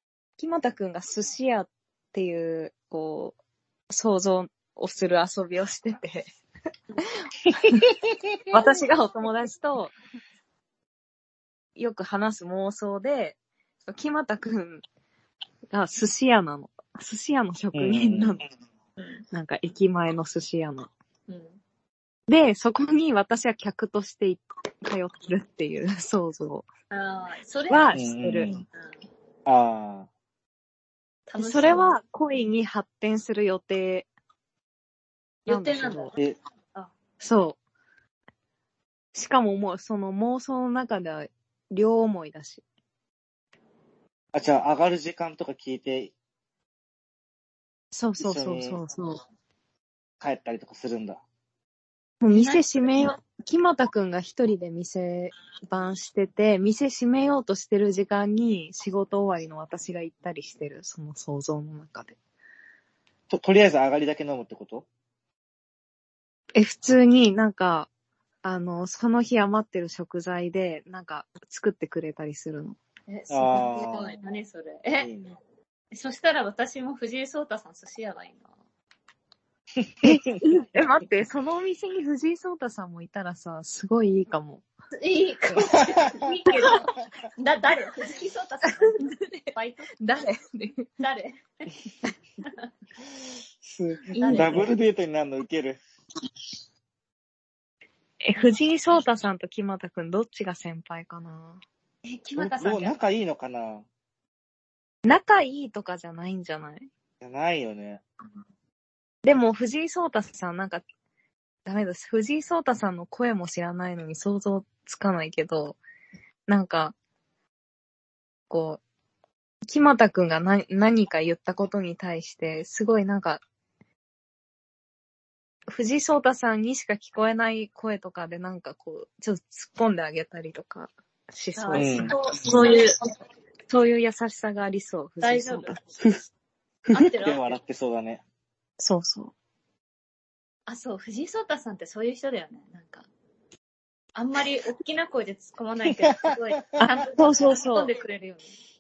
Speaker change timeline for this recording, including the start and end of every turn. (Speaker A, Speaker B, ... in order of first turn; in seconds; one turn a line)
Speaker A: 0.4-3.4
Speaker A: 3.9-6.3
Speaker A: 7.6-7.9
Speaker A: 8.5-9.9
Speaker A: 11.8-14.8
Speaker A: 15.7-18.4
Speaker B: 17.7-18.4
Speaker A: 19.3-20.9
Speaker C: 21.3-21.6
Speaker A: 22.3-26.7
Speaker C: 26.9-27.9
Speaker A: 27.7-28.5
Speaker B: 27.9-28.6
Speaker B: 29.5-30.1
Speaker C: 31.3-31.9
Speaker A: 31.4-34.1
Speaker C: 35.5-36.2
Speaker A: 35.5-36.1
Speaker A: 37.2-37.6
Speaker A: 39.1-42.6
Speaker B: 44.3-46.1
Speaker A: 47.9-49.2
Speaker B: 48.2-48.8
Speaker B: 50.2-51.2
Speaker A: 52.2-62.2
Speaker C: 52.3-53.1
Speaker B: 63.3-64.9
Speaker A: 66.5-67.9
Speaker A: 68.4-72.8
Speaker C: 73.1-75.1
Speaker B: 73.3-74.2
Speaker B: 75.0-75.3
Speaker C: 75.9-78.5
Speaker B: 79.8-80.1
Speaker A: 80.0-84.6
Speaker C: 85.0-90.0
Speaker B: 85.6-86.5
Speaker A: 90.0-90.9
Speaker C: 91.0-91.7
Speaker B: 93.6-95.8
Speaker A: 94.1-94.7
Speaker C: 94.2-94.7
Speaker A: 98.2-101.6
Speaker C: 102.0-103.0
Speaker B: 102.4-103.9
Speaker A: 105.0-106.9
Speaker B: 107.2-108.0
Speaker A: 109.2-110.8
Speaker A: 111.7-115.8
Speaker A: 116.5-117.0
Speaker A: 118.5-118.8
Speaker A: 119.7-123.4
Speaker A: 125.7-133.0
Speaker C: 131.6-132.9
Speaker B: 131.8-132.2
Speaker A: 133.7-136.0
Speaker C: 135.2-135.8
Speaker C: 136.9-137.6
Speaker B: 137.0-138.2
Speaker A: 138.8-139.3
Speaker C: 140.7-143.1
Speaker C: 144.2-148.5
Speaker B: 146.0-146.8
Speaker A: 146.8-147.9